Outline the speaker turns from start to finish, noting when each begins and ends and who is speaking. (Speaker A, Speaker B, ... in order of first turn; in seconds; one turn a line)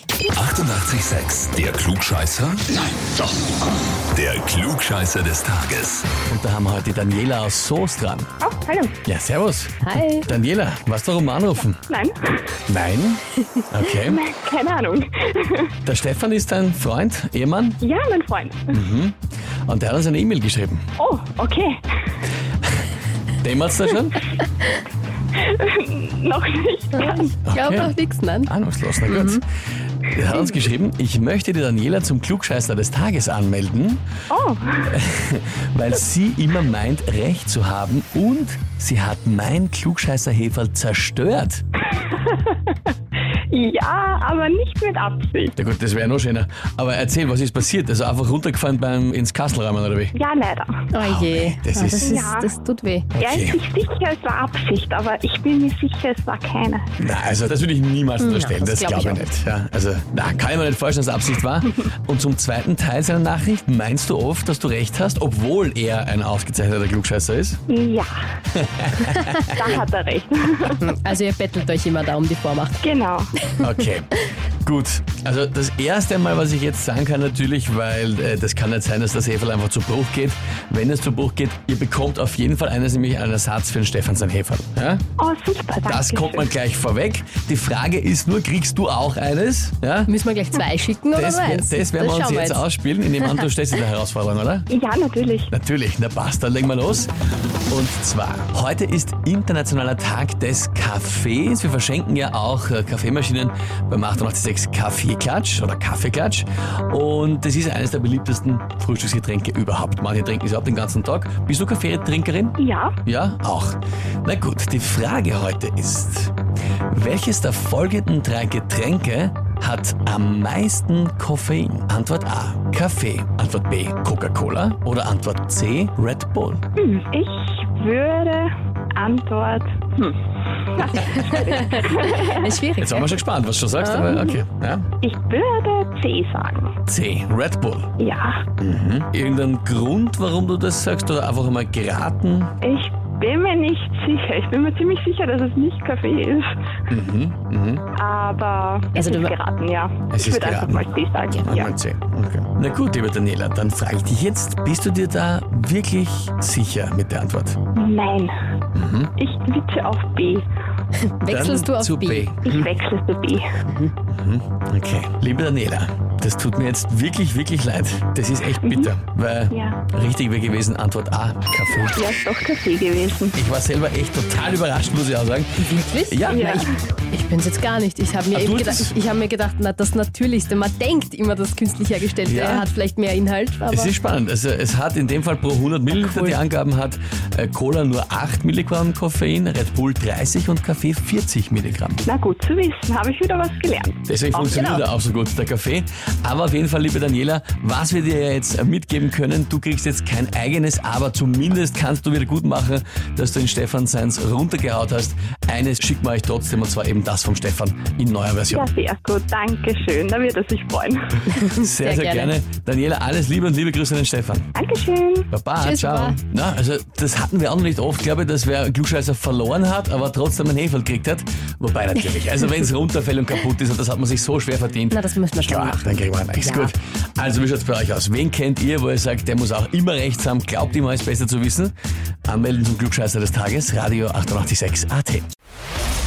Speaker A: 0.3-3.2
Speaker A: 4.1-6.1
Speaker B: 6.3-8.3
Speaker C: 8.4-8.9
Speaker B: 9.0-11.8
Speaker D: 9.8-10.3
Speaker C: 11.9-12.5
Speaker B: 12.7-14.2
Speaker C: 14.0-15.7
Speaker B: 15.8-17.8
Speaker C: 17.8-18.8
Speaker B: 18.7-20.8
Speaker C: 21.0-21.8
Speaker B: 23.4-24.2
Speaker C: 25.3-27.3
Speaker D: 26.9-28.5
Speaker B: 27.4-29.4
Speaker D: 29.0-29.4
Speaker B: 30.0-34.0
Speaker C: 30.3-30.6
Speaker C: 34.3-34.9
Speaker B: 34.9-41.6
Speaker C: 42.0-42.7
Speaker C: 43.5-45.5
Speaker B: 45.6-50.1
Speaker C: 50.1-50.8
Speaker D: 50.9-53.1
Speaker B: 51.0-52.1
Speaker C: 52.0-52.5
Speaker B: 53.1-53.6
Speaker C: 53.2-56.9
Speaker B: 57.0-67.6
Speaker D: 58.2-59.3
Speaker C: 67.7-68.1
Speaker B: 68.5-69.5
Speaker C: 69.5-70.8
Speaker D: 70.8-72.8
Speaker C: 72.8-73.3
Speaker B: 73.6-85.0
Speaker C: 85.2-86.5
Speaker B: 85.9-90.1
Speaker D: 90.1-92.7
Speaker B: 91.1-94.7
Speaker C: 94.7-95.5
Speaker B: 95.5-97.1
Speaker B: 97.7-116.3
Speaker C: 112.6-112.9
Speaker B: 116.9-126.6
Speaker C: 126.8-130.2
Speaker C: 130.7-132.5
Speaker D: 131.5-133.2
Speaker B: 132.8-134.9
Speaker D: 133.8-134.1
Speaker C: 135.0-136.7
Speaker B: 136.9-137.9
Speaker C: 138.0-138.4
Speaker B: 138.6-142.5
Speaker C: 142.6-146.5
Speaker B: 146.9-147.8
Speaker C: 147.9-151.7
Speaker D: 148.9-149.3
Speaker B: 150.1-150.9
Speaker B: 151.4-157.6
Speaker C: 157.7-158.3
Speaker B: 158.7-159.1
Speaker C: 159.2-160.4
Speaker D: 161.0-162.3
Speaker B: 161.3-162.6
Speaker C: 162.4-163.5
Speaker D: 163.7-163.9
Speaker B: 164.1-172.0
Speaker C: 168.6-168.9
Speaker C: 169.5-169.8
Speaker C: 171.9-173.3
Speaker B: 173.3-176.6
Speaker D: 175.6-183.9
Speaker C: 176.3-176.7
Speaker B: 178.3-178.9
Speaker B: 182.2-182.7
Speaker B: 183.7-192.0
Speaker D: 185.9-186.4
Speaker C: 192.0-194.8
Speaker B: 194.1-208.7
Speaker C: 208.5-211.3
Speaker D: 211.3-212.3
Speaker B: 211.3-214.5
Speaker C: 214.5-215.3
Speaker B: 215.3-231.7
Speaker D: 215.6-216.2
Speaker D: 222.1-222.5
Speaker D: 224.9-226.7
Speaker B: 232.2-235.3